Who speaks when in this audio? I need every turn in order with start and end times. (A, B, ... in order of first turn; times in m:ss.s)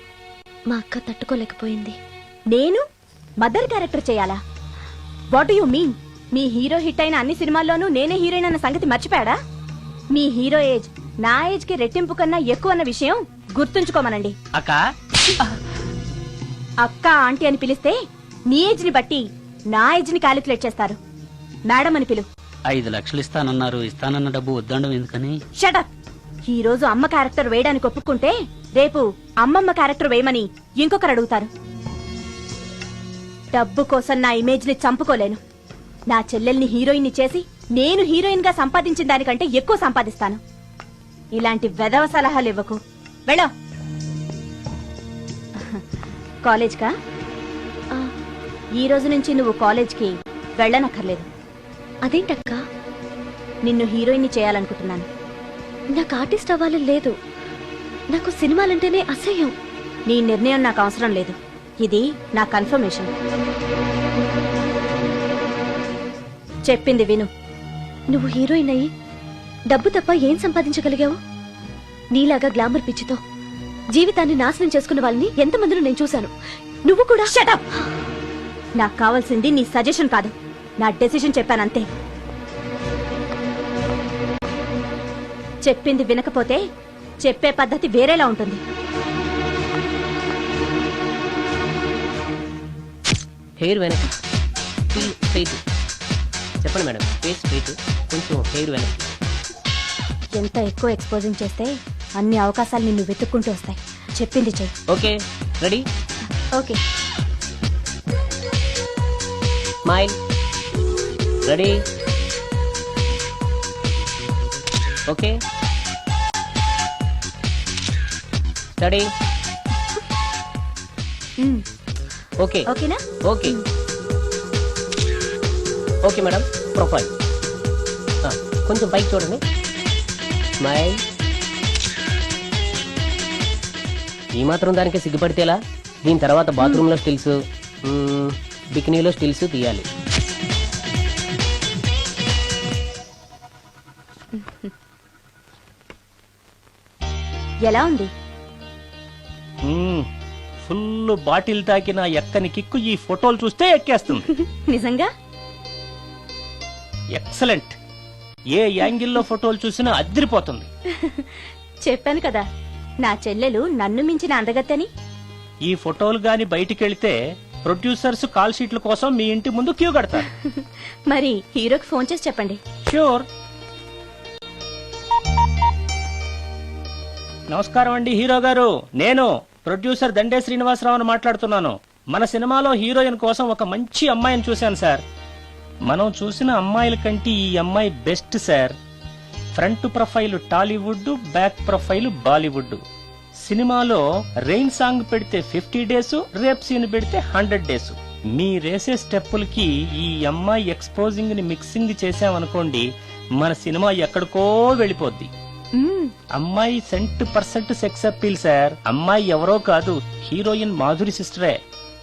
0:00.7-0:02.0 A
0:02.5-0:02.8 B
0:03.4-0:04.4 B
0:05.3-0:09.4 B
0:10.2-0:14.4 B
0:14.6-0:14.8 C
0:16.8-0:18.0 B
0:18.5-0:21.0 B
0:21.7-0:22.3 B
0:22.7-0:25.4 C
0:25.6-0:25.9 B
0:26.5-0:31.5 B
0:33.5-0:35.4 B
0:36.1-0:40.4 B
0:41.4-0:43.5 B
0:46.5-0:46.9 B
0:48.8-0:51.3 B
0:52.1-0:52.6 A
0:53.6-0:55.1 B
0:56.0-0:57.1 A
0:58.1-0:59.5 A
1:00.1-1:03.1 B
1:06.7-1:07.3 B
1:08.1-1:08.9 A
1:09.7-1:11.2 A
1:12.2-1:13.2 A
1:13.9-1:16.3 A
1:16.9-1:17.3 A
1:17.3-1:17.6 B
1:18.8-1:21.9 B
1:25.6-1:26.6 B
1:27.2-1:28.6 B
1:33.6-1:34.1 D
1:34.9-1:35.6 D
1:36.6-1:39.1 D
1:40.4-1:44.7 B
1:44.9-1:45.9 D
1:49.8-1:50.2 D
1:51.4-1:51.8 D
1:55.1-1:55.4 D
1:58.8-1:59.1 D
2:02.4-2:02.7 D
2:02.7-2:03.0 B
2:03.2-2:03.6 D
2:06.0-2:07.1 D
2:08.2-2:09.4 D
2:10.6-2:11.0 D
2:14.4-2:19.9 D
2:27.6-2:28.1 B
2:29.6-2:30.1 E
2:30.6-2:34.2 E
2:34.3-2:35.1 B
2:37.2-2:37.8 E
2:38.5-2:40.7 E
2:41.0-2:41.3 B
2:41.9-2:42.4 B
2:43.0-2:44.9 B
2:45.6-2:50.3 E
2:51.1-2:52.6 B
2:52.9-2:53.3 E
2:57.5-3:05.0 E
3:05.8-3:08.8 E
3:09.6-3:12.8 E
3:13.4-3:22.9 E
3:23.4-3:25.3 E
3:25.8-3:26.1 B
3:26.3-3:31.6 E